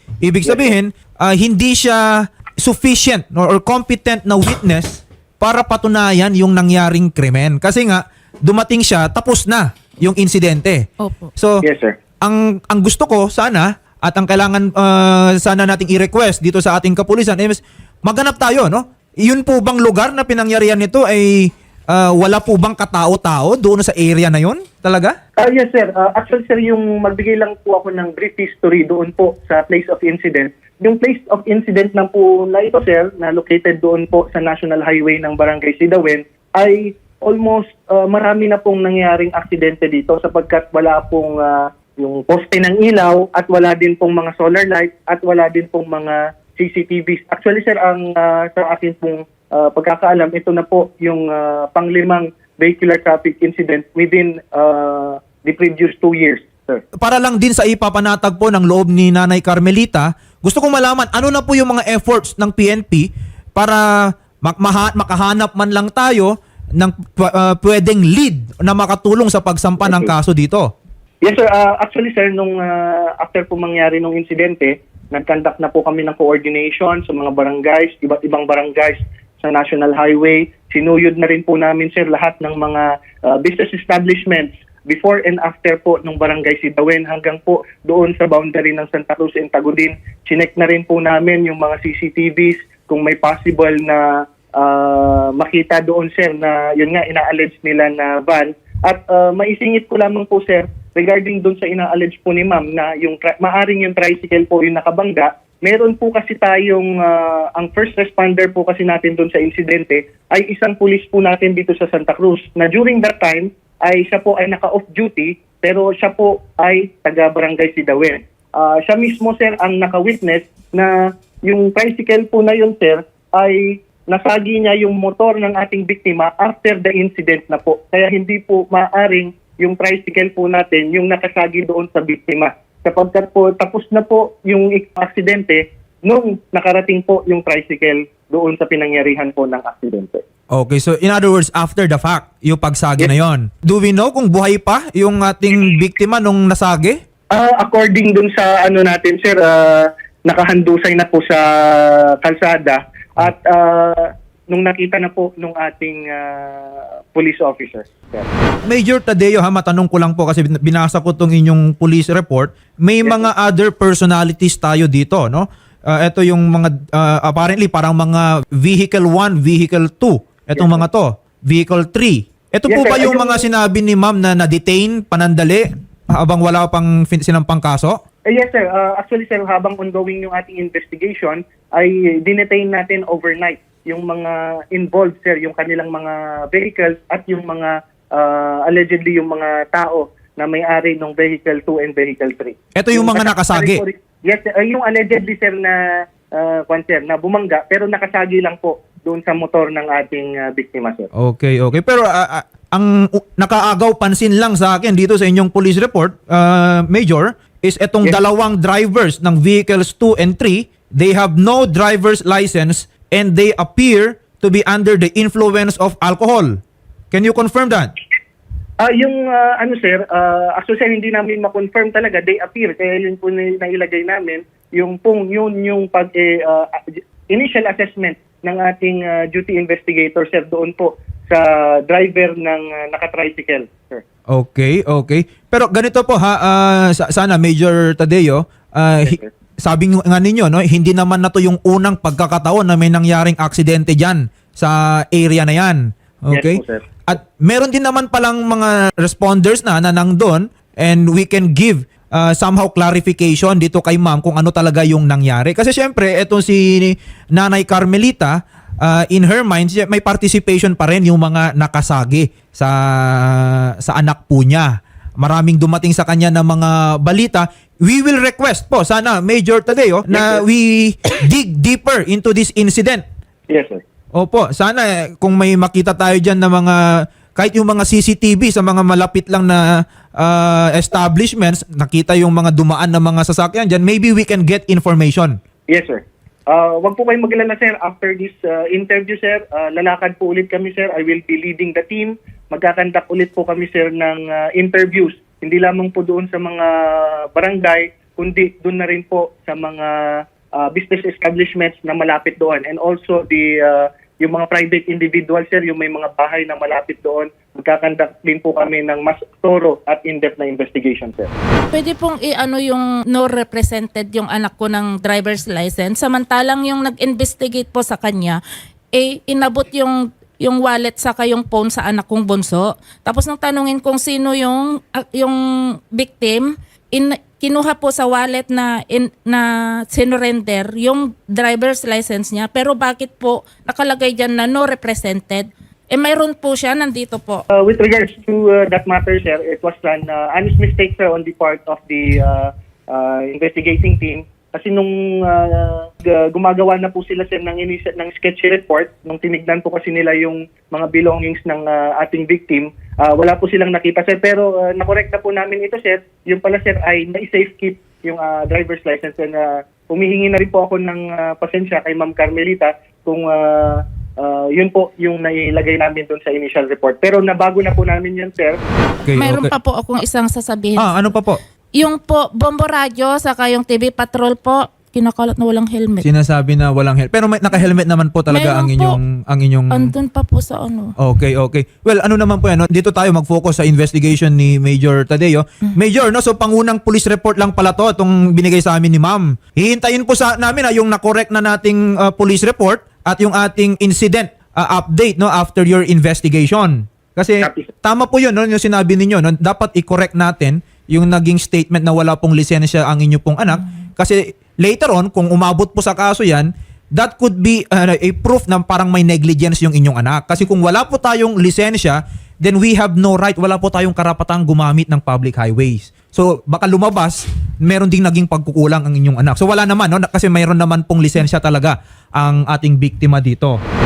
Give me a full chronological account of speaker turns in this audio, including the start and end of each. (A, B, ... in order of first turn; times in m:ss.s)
0:00.2-0:10.8 A
0:00.4-0:00.7 B
0:11.0-0:11.3 C
0:11.6-0:12.0 B
0:12.2-0:25.2 A
0:25.4-0:56.8 B
0:57.0-1:10.7 A
1:09.8-1:10.1 B
1:11.2-2:20.2 B
2:20.5-2:27.0 A
2:27.3-2:38.3 B
2:38.6-2:58.0 A
2:43.0-2:43.3 B
2:50.5-2:50.9 B
2:52.7-2:53.5 B
2:58.3-3:15.8 B
3:12.7-3:13.8 A
3:16.3-3:21.1 B
3:21.1-3:36.6 A
3:37.1-3:37.9 A
3:38.8-3:54.0 B
3:54.3-4:33.0 A
3:59.0-3:59.3 B
4:06.3-4:06.8 B
4:30.1-4:30.4 B
4:33.5-4:33.8 B
4:34.1-4:45.3 A
4:45.7-5:11.3 B
5:11.7-5:18.4 C
5:18.9-5:37.4 C
5:37.5-6:08.6 B
6:09.0-6:09.5 A
6:09.1-6:11.2 C
6:10.8-6:11.4 A
6:11.7-6:16.1 C
6:16.0-6:19.9 A
6:18.3-6:19.0 C
6:19.7-6:20.9 C
6:21.0-7:03.6 A
6:37.4-6:37.7 B